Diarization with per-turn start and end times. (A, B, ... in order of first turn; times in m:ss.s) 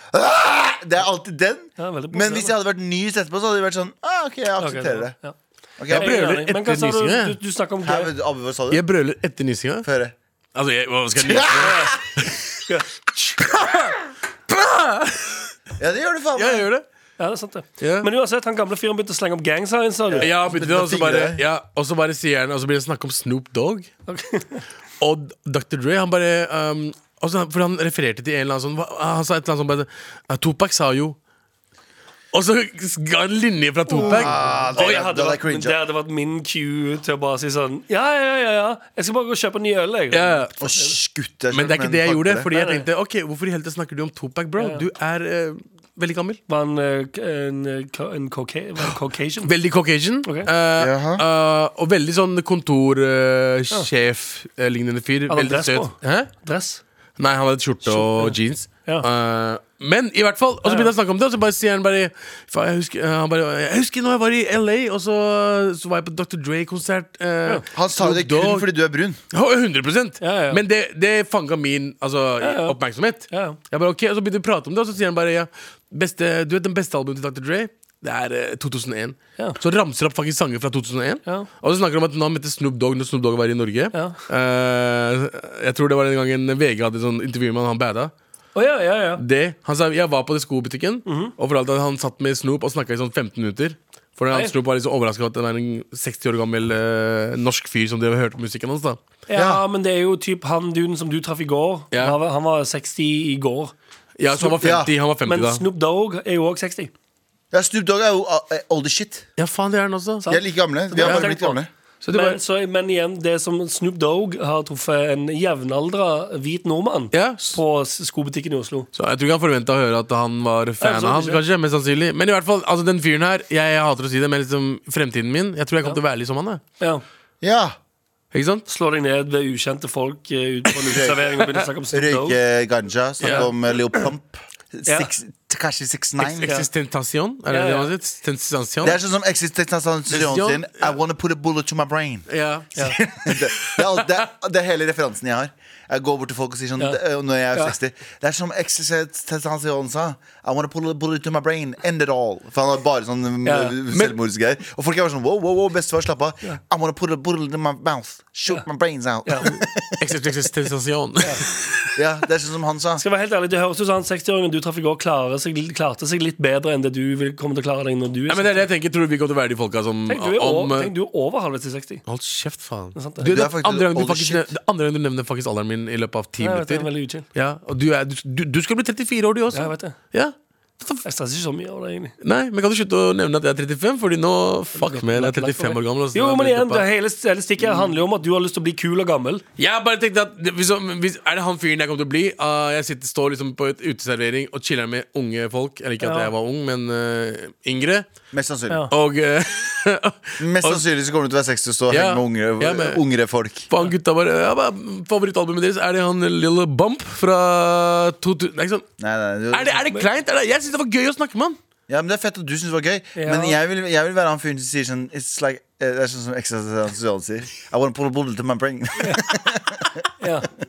0:00.1-0:05.1 A
0:01.8-0:02.5 B
0:04.6-0:05.3 B
0:05.8-0:06.2 A
0:05.9-0:07.4 C
0:05.9-0:08.1 B
0:07.8-0:08.8 A
0:08.7-0:09.9 C
0:09.8-0:10.1 A
0:10.5-0:12.4 C
0:11.2-0:11.9 A
0:11.6-0:12.0 B
0:13.4-0:14.0 C
0:14.5-0:15.5 C
0:15.8-0:16.7 A
0:16.4-0:16.8 C
0:17.2-0:20.3 B
0:17.8-0:18.1 C
0:20.1-0:21.4 A
0:20.2-0:23.9 C
0:24.1-0:24.6 B
0:25.0-0:31.2 C
0:32.3-0:34.8 C
0:33.9-0:40.9 B
0:34.0-0:35.8 A
0:40.1-0:40.5 C
0:40.6-0:42.5 A
0:41.5-0:46.4 C
0:42.5-0:42.8 B
0:44.6-0:44.8 B
0:46.5-0:49.5 B
0:49.4-0:56.3 C
0:50.8-0:51.2 A
0:55.3-0:56.8 B
0:57.2-1:08.7 C
0:57.9-0:59.0 B
1:00.6-1:00.9 B
1:07.7-1:09.2 A
1:09.3-1:28.1 C
1:10.2-1:10.6 B
1:12.4-1:12.8 B
1:13.3-1:13.6 B
1:23.9-1:24.2 B
1:28.5-1:29.2 B
1:29.2-1:39.0 C
1:31.0-1:31.3 B
1:39.3-1:43.7 B
1:39.3-1:39.6 A
1:41.9-1:42.2 C
1:44.2-1:45.6 C
1:44.3-1:44.9 A
1:45.2-1:46.9 B
1:47.5-1:49.3 A
1:49.4-1:50.2 C
1:50.2-1:51.6 B
1:50.3-1:51.7 A
1:51.0-1:51.3 C
1:52.0-1:52.4 C
1:52.1-1:58.9 B
1:57.1-1:57.6 C
1:58.9-2:06.6 C
2:00.8-2:01.4 B
2:07.4-2:07.8 A
2:08.3-2:08.6 C
2:08.7-2:12.4 B
2:10.9-2:11.2 A
2:11.9-2:16.5 A
2:13.2-2:13.5 C
2:13.2-2:14.0 B
2:16.2-2:19.0 C
2:17.5-2:17.9 B
2:18.8-2:22.3 A
2:20.1-2:20.9 C
2:22.3-2:24.1 C
2:22.8-2:40.0 A
2:33.4-2:33.7 B
2:33.9-2:34.1 C
2:39.2-2:39.6 B
2:40.0-2:41.9 C
2:41.9-2:43.0 A
2:43.0-2:48.6 B
2:48.3-2:50.9 C
2:50.1-2:52.0 B
2:52.0-3:01.0 C
2:52.9-2:53.2 B
2:53.2-2:54.5 A
2:56.4-2:57.2 B
2:59.5-3:00.0 B
3:01.0-3:02.1 B
3:02.2-3:06.9 C
3:04.8-3:09.4 B
3:07.6-3:08.0 C
3:09.6-3:18.0 C
3:16.0-3:16.3 B
3:18.3-3:18.9 A
3:18.9-3:20.8 C
3:20.4-3:23.7 A
3:21.9-3:23.0 C
3:23.7-3:28.9 C
3:29.0-3:29.8 A
3:29.5-3:31.6 C
3:31.9-3:39.9 A
3:33.2-3:33.6 B
3:39.0-3:39.2 B
3:40.2-3:40.5 B